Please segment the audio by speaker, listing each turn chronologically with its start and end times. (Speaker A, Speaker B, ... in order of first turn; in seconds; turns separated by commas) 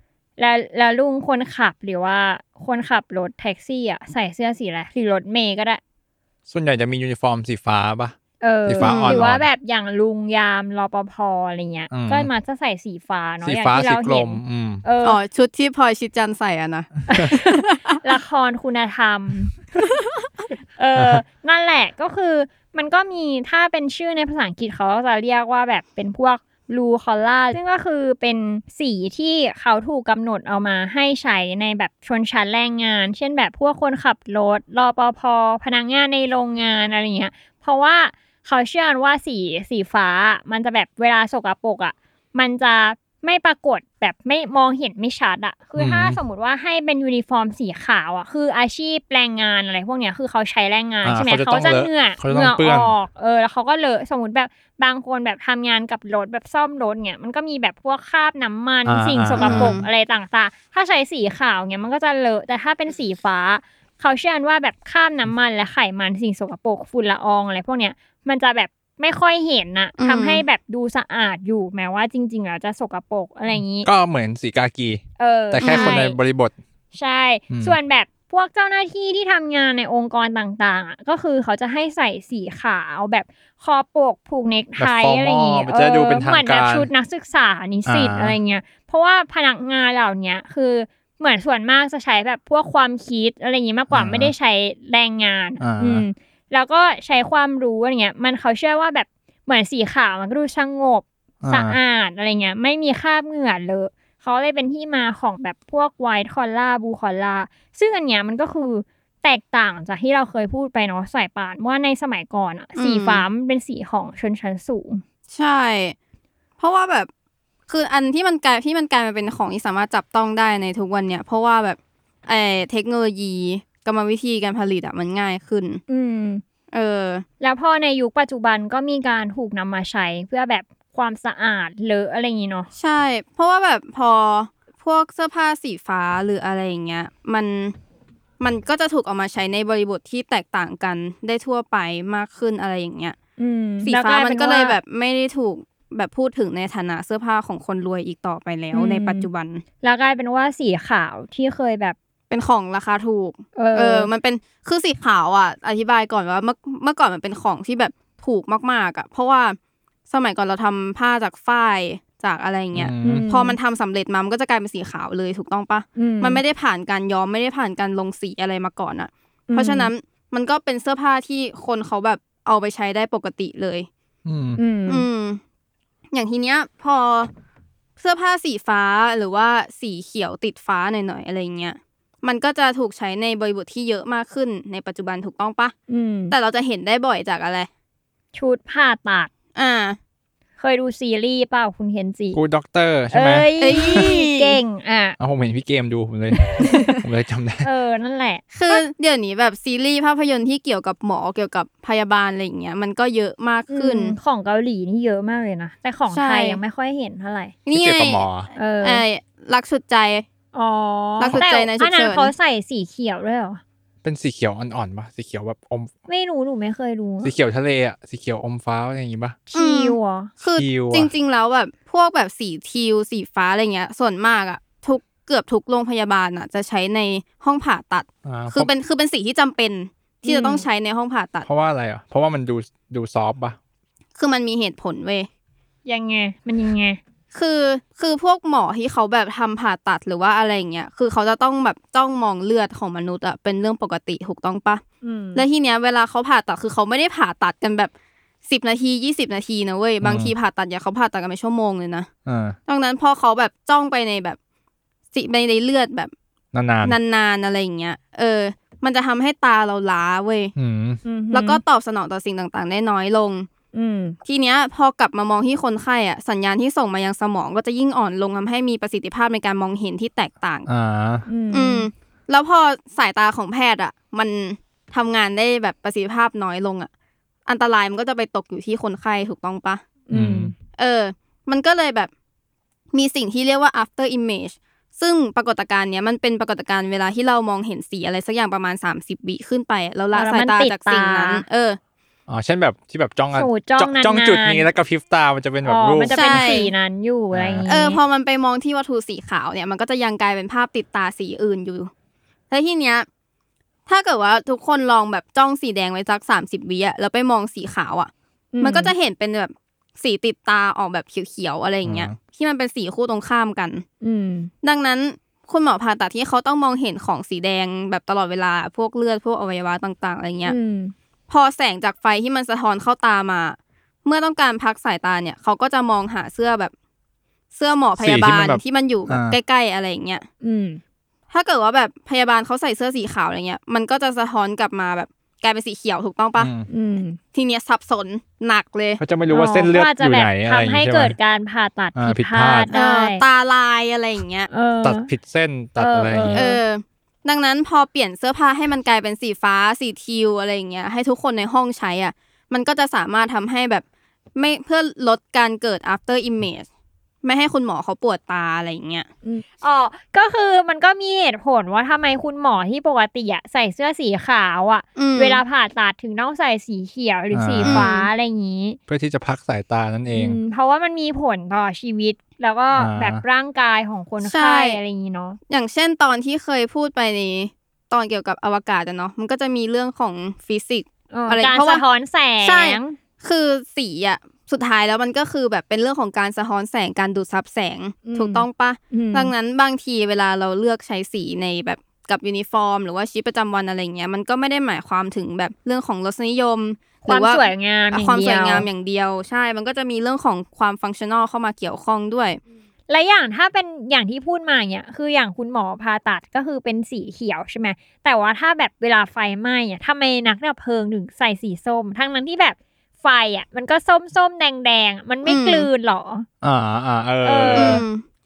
Speaker A: 0.4-5.8, Speaker B: 6.5-8.1, Speaker A: 8.4-15.2, Speaker B: 8.7-9.4, Speaker C: 8.8-9.2, Speaker B: 11.9-12.3, Speaker B: 13.4-14.8, Speaker C: 15.0-18.0, Speaker A: 17.1-19.5, Speaker A: 20.8-73.9, Speaker B: 20.9-21.2, Speaker B: 45.8-46.2, Speaker B: 51.0-52.9, Speaker B: 58.8-59.7, Speaker C: 59.4-59.8, Speaker C: 70.0-70.4, Speaker B: 73.5-76.5, Speaker A: 75.2-76.2, Speaker C: 75.6-76.0, Speaker A: 76.9-115.0, Speaker B: 77.5-77.8, Speaker B: 84.8-86.9, Speaker B: 87.8-88.3, Speaker B: 93.9-94.3, Speaker B: 95.6-96.0, Speaker B: 101.4-101.8, Speaker C: 112.8-113.2, Speaker C: 115.3-115.9, Speaker C: 116.6-117.1, Speaker C: 117.7-125.8, Speaker A: 125.9-126.4, Speaker C: 126.7-127.2, Speaker A: 127.4-132.7, Speaker C: 132.7-137.7, Speaker C: 138.4-143.2, Speaker A: 143.4-144.8, Speaker C: 143.8-149.6, Speaker A: 148.7-149.3, Speaker A: 149.8-151.9, Speaker C: 152.3-159.6, Speaker A: 153.6-154.1, Speaker C: 160.1-173.9, Speaker B: 162.7-163.3, Speaker A: 163.0-163.6, Speaker A: 165.9-166.4, Speaker A: 169.5-169.9, Speaker B: 174.2-174.6, Speaker A: 174.6-175.0, Speaker C: 174.9-175.4, Speaker C: 176.1-177.3, Speaker C: 178.0-185.7, Speaker A: 185.9-186.3, Speaker C: 186.3-187.7, Speaker A: 188.3-189.3, Speaker C: 189.5-190.0, Speaker A: 190.6-192.4, Speaker B: 192.3-194.0, Speaker A: 193.1-195.2, Speaker C: 193.6-194.6, Speaker B: 195.2-197.7, Speaker A: 196.4-196.9, Speaker A: 197.6-198.8, Speaker C: 198.5-204.1, Speaker A: 203.7-207.5, Speaker C: 206.1-206.6, Speaker C: 207.7-208.2, Speaker B: 207.7-208.5, Speaker A: 208.6-209.0, Speaker C: 208.8-210.2, Speaker A: 210.5-213.6, Speaker C: 211.2-212.3, Speaker B: 214.0-215.9, Speaker A: 216.1-217.3, Speaker B: 217.2-219.4, Speaker A: 219.5-220.3, Speaker C: 219.5-231.5, Speaker B: 220.6-221.1, Speaker B: 228.2-228.7, Speaker A: 230.2-230.6, Speaker B: 231.4-233.6, Speaker C: 234.2-235.3, Speaker A: 235.8-237.0, Speaker C: 237.3-244.8, Speaker A: 245.0-245.4, Speaker C: 245.3-247.9, Speaker C: 248.4-252.1, Speaker B: 250.0-250.3, Speaker B: 252.2-252.6, Speaker C: 252.7-254.4, Speaker C: 255.1-256.1, Speaker B: 256.5-257.0, Speaker C: 256.8-260.5, Speaker B: 260.6-261.0, Speaker A: 261.0-261.6, Speaker C: 261.3-263.5, Speaker A: 263.7-264.1, Speaker C: 264.2-270.7, Speaker B: 270.7-271.2, Speaker A: 271.3-271.9, Speaker C: 271.5-276.9, Speaker C: 277.4-279.8, Speaker A: 280.1-280.5, Speaker B: 280.1-280.5, Speaker C: 280.8-282.1, Speaker C: 282.9-291.8, Speaker A: 290.1-291.4, Speaker B: 292.3-296.5, Speaker A: 293.3-294.6, Speaker A: 295.6-298.0, Speaker C: 296.1-296.7, Speaker B: 297.3-297.7, Speaker C: 297.7-301.9, Speaker C: 302.5-303.1, Speaker C: 303.9-313.8, Speaker A: 308.5-308.9, Speaker B: 311.8-312.2, Speaker A: 314.0-314.5, Speaker C: 314.6-320.6, Speaker A: 320.4-320.9, Speaker C: 321.3-326.7, Speaker C: 327.5-330.2, Speaker B: 328.0-329.4, Speaker A: 330.4-330.8, Speaker C: 331.3-336.5, Speaker B: 336.4-336.7, Speaker A: 336.7-337.2, Speaker C: 337.3-339.0, Speaker B: 339.0-341.1, Speaker A: 339.3-343.2, Speaker B: 341.9-342.7, Speaker C: 342.7-344.5, Speaker A: 344.5-345.1, Speaker B: 344.8-346.4, Speaker A: 345.8-346.6, Speaker C: 346.3-353.8, Speaker C: 354.4-356.7, Speaker C: 357.2-359.1, Speaker A: 359.2-368.8, Speaker C: 364.9-365.4, Speaker B: 367.3-367.9, Speaker C: 367.6-368.1, Speaker B: 368.9-370.4, Speaker A: 370.1-375.4, Speaker B: 372.7-373.2, Speaker C: 374.2-374.8, Speaker C: 375.5-381.8, Speaker A: 381.1-383.0, Speaker C: 382.4-402.4, Speaker A: 388.0-389.3, Speaker A: 397.1-398.6, Speaker A: 402.9-416.3, Speaker C: 415.2-415.7, Speaker B: 416.4-417.8, Speaker A: 417.2-417.8, Speaker C: 417.5-418.0